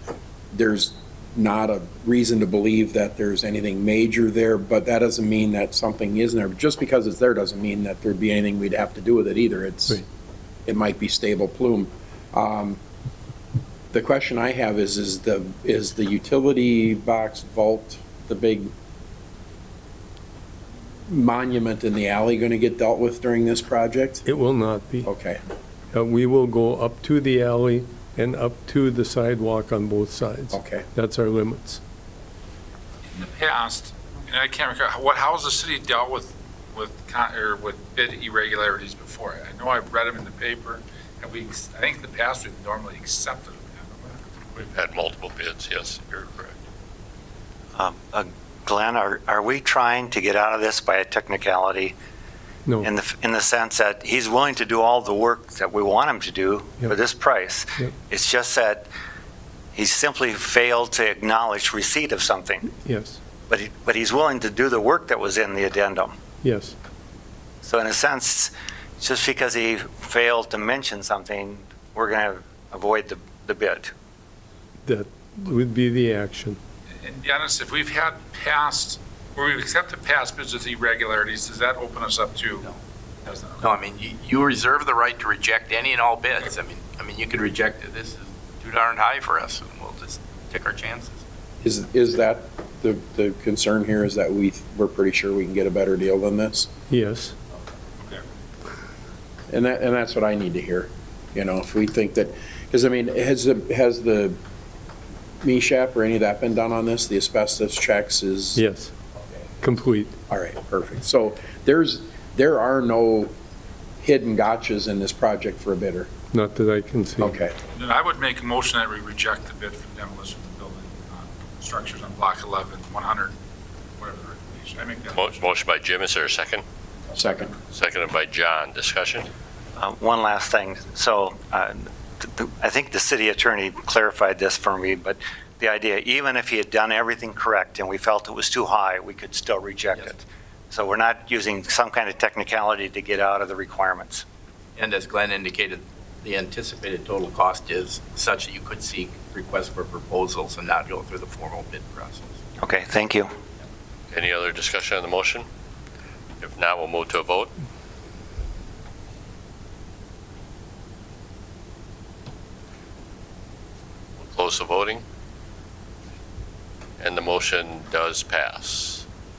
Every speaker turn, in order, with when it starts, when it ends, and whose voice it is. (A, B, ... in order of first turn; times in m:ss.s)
0:00.5-0:10.0 A
0:10.6-0:12.8 A
0:13.9-0:18.7 A
0:21.1-0:24.2 A
0:24.2-0:25.1 B
0:25.0-0:25.4 A
0:25.9-0:31.8 B
0:30.5-0:30.8 A
0:33.1-0:44.2 C
0:44.5-0:46.5 D
0:47.7-0:51.9 E
0:52.8-0:58.9 E
0:59.7-1:02.7 E
1:02.7-1:03.2 B
1:03.5-1:06.1 E
1:06.4-1:06.8 B
1:07.6-1:13.9 E
1:14.8-1:16.6 B
1:17.0-1:22.7 C
1:23.2-1:23.7 C
1:23.6-1:31.2 F
1:31.6-1:36.7 A
1:36.9-1:37.4 B
1:39.5-1:44.4 A
1:45.4-1:48.6 A
1:48.6-1:48.9 B
1:49.6-1:50.1 B
1:50.3-1:53.3 A
1:54.0-1:56.1 A
1:56.3-1:57.4 B
1:57.2-1:57.6 A
1:57.7-2:03.3 C
2:04.0-2:05.4 C
2:05.1-2:06.6 D
2:07.1-2:07.5 A
2:07.7-2:09.3 D
2:09.8-2:24.2 E
2:24.8-2:32.4 F
2:32.6-2:33.3 E
2:34.1-2:35.5 D
2:36.4-2:37.5 D
2:44.2-2:45.0 D
2:47.0-2:49.0 D